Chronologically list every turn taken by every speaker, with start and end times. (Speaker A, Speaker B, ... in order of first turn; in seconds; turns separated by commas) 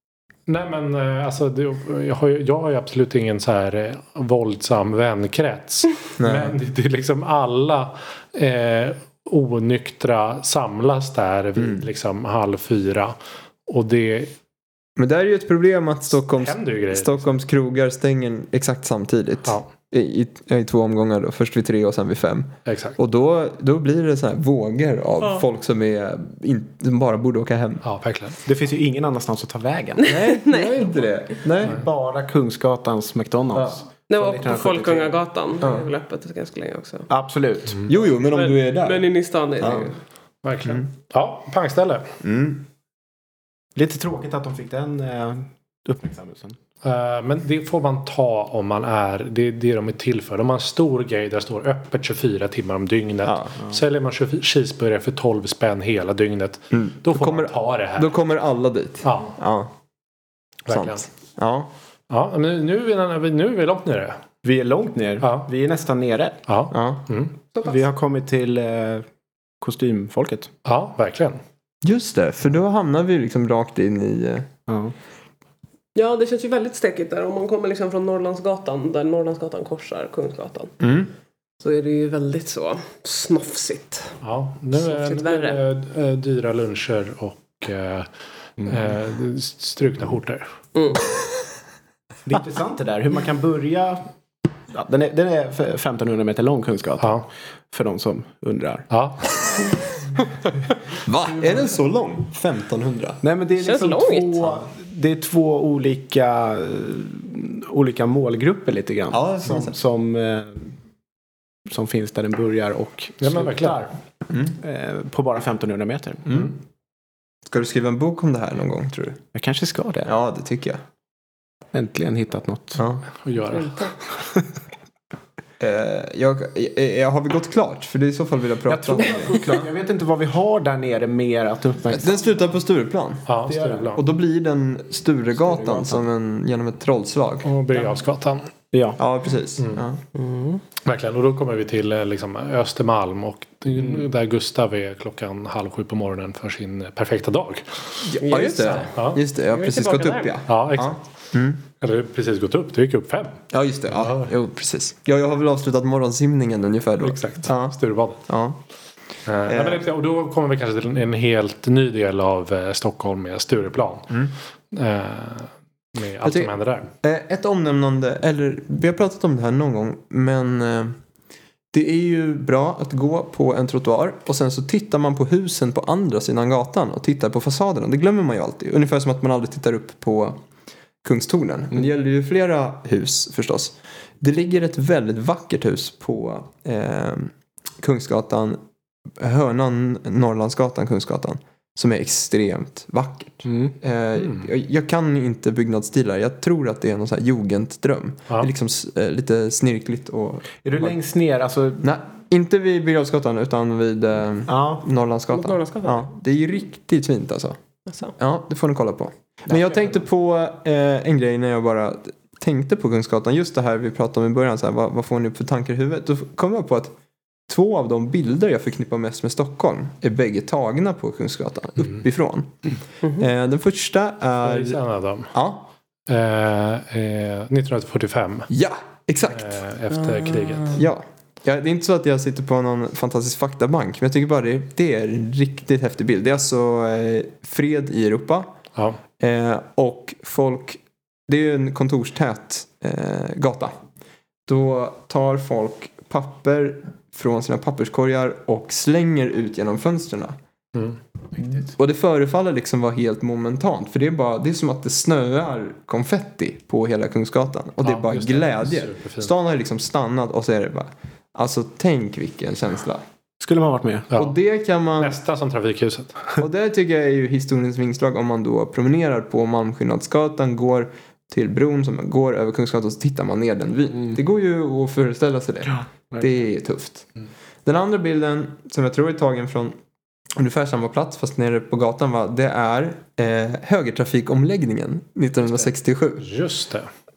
Speaker A: 0.5-14.3, Speaker B: 6.2-6.5, Speaker B: 11.6-11.8, Speaker B: 15.0-27.8, Speaker A: 16.3-17.3, Speaker A: 22.6-23.0, Speaker A: 27.8-28.4, Speaker C: 28.4-30.1, Speaker D: 30.0-31.1, Speaker B: 30.0-31.8, Speaker C: 31.5-35.2, Speaker B: 33.5-33.8, Speaker D: 34.1-37.1, Speaker B: 35.6-35.9, Speaker C: 37.1-37.8, Speaker B: 37.9-39.1, Speaker D: 38.1-40.0, Speaker B: 39.6-39.9, Speaker A: 40.4-42.1, Speaker B: 42.2-42.7, Speaker C: 43.8-46.6, Speaker A: 46.8-58.1, Speaker B: 53.2-53.5, Speaker B: 56.7-59.7, Speaker A: 59.0-59.3, Speaker A: 60.7-61.0, Speaker B: 60.7-61.7, Speaker A: 62.1-64.2, Speaker C: 64.4-66.4, Speaker A: 65.2-65.5, Speaker A: 66.5-67.3, Speaker B: 66.7-67.1, Speaker C: 67.6-69.0, Speaker C: 69.6-70.5, Speaker A: 70.6-71.4, Speaker B: 71.8-74.5, Speaker C: 74.7-74.9, Speaker D: 75.9-80.7, Speaker B: 80.8-81.1, Speaker D: 81.6-84.2, Speaker A: 84.2-90.5, Speaker D: 84.7-85.6, Speaker D: 90.7-91.0, Speaker C: 92.2-94.0, Speaker C: 94.7-98.9, Speaker A: 97.0-97.2, Speaker A: 98.9-99.4, Speaker B: 101.0-103.2, Speaker C: 103.2-110.7, Speaker D: 103.6-104.4, Speaker B: 109.1-109.8, Speaker C: 111.7-113.9, Speaker A: 113.2-113.8, Speaker B: 114.3-114.6, Speaker C: 114.6-116.3, Speaker B: 116.2-116.5, Speaker B: 117.5-119.2, Speaker C: 119.3-120.1, Speaker B: 120.0-120.8, Speaker C: 121.7-122.8, Speaker B: 122.8-123.0, Speaker A: 123.2-123.9, Speaker D: 123.5-123.9, Speaker B: 125.6-129.6, Speaker C: 128.7-132.3, Speaker B: 131.9-133.3, Speaker A: 133.2-134.0, Speaker C: 133.4-134.0, Speaker B: 133.9-137.5, Speaker C: 135.4-136.1, Speaker A: 137.4-138.5, Speaker C: 138.7-139.0, Speaker B: 139.0-140.0, Speaker D: 140.1-140.6, Speaker A: 140.8-148.0, Speaker C: 143.8-144.0, Speaker B: 148.0-151.6, Speaker D: 148.2-148.9, Speaker A: 148.9-149.2, Speaker D: 149.5-150.3, Speaker A: 150.5-151.0, Speaker A: 151.8-153.4, Speaker B: 153.5-158.6, Speaker A: 153.9-154.3, Speaker A: 157.0-158.2, Speaker A: 159.2-164.1, Speaker B: 159.4-159.8, Speaker A: 164.7-166.9, Speaker B: 166.2-171.0, Speaker B: 171.7-180.4, Speaker B: 181.0-188.6, Speaker B: 189.2-200.9, Speaker C: 193.4-193.7, Speaker A: 194.2-194.5, Speaker C: 200.6-201.8, Speaker B: 201.8-207.6, Speaker C: 204.5-204.8, Speaker D: 205.3-206.1, Speaker D: 207.9-208.1, Speaker B: 208.2-216.9, Speaker C: 209.5-210.0, Speaker B: 217.5-224.8, Speaker A: 224.4-225.3, Speaker B: 225.3-225.7, Speaker A: 226.1-228.5, Speaker B: 228.5-229.6, Speaker A: 229.3-230.8, Speaker B: 230.7-238.5, Speaker B: 239.2-243.8, Speaker B: 244.5-250.3, Speaker B: 251.4-263.0, Speaker A: 257.8-259.3, Speaker C: 263.4-264.1, Speaker A: 264.1-264.4, Speaker B: 264.1-265.2, Speaker A: 265.0-266.3, Speaker B: 266.4-277.1, Speaker B: 277.6-279.8, Speaker B: 280.4-286.3, Speaker A: 286.2-286.9